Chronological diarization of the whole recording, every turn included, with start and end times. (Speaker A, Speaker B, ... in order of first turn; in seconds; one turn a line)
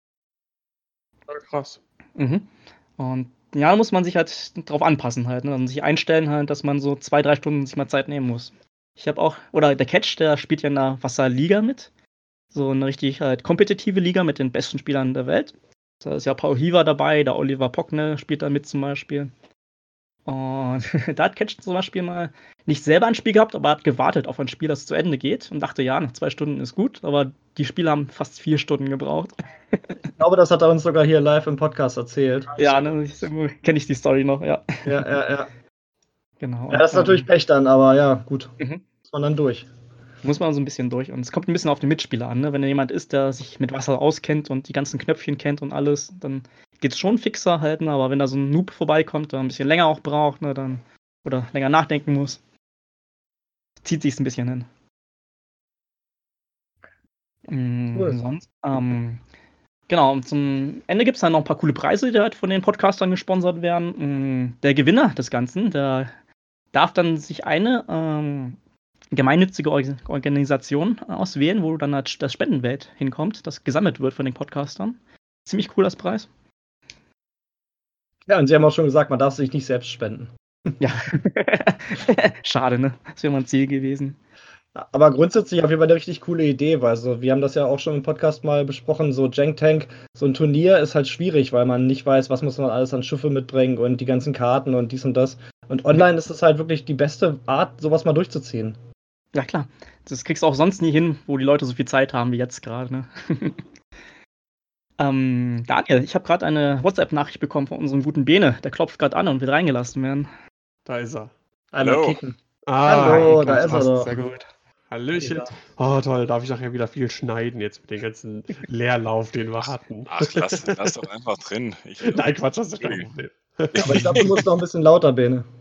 Speaker A: 1.3-1.8
Speaker B: 2.2-11.9
Speaker B: 12.5-19.3
Speaker B: 20.3-29.9
Speaker C: 30.2-32.5
Speaker B: 32.6-34.9
Speaker C: 34.9-35.5
Speaker B: 36.4-37.3
Speaker C: 36.7-38.5
Speaker C: 39.1-39.7
Speaker B: 40.2-52.4
Speaker B: 53.8-54.7
Speaker B: 57.5-59.2
Speaker B: 59.9-66.1
Speaker B: 66.7-68.6
Speaker B: 69.1-76.3
Speaker C: 78.3-80.3
Speaker B: 80.8-84.2
Speaker C: 84.8-98.8
Speaker B: 99.3-103.6
Speaker B: 105.0-110.3
Speaker A: 110.8-111.3
Speaker C: 111.7-114.1
Speaker D: 111.8-112.2
Speaker A: 112.7-113.8
Speaker B: 112.9-114.5
Speaker A: 114.9-120.9
Speaker B: 115.2-115.5
Speaker D: 120.1-123.1
Speaker A: 122.0-124.4
Speaker D: 123.7-124.4
Speaker C: 123.8-125.5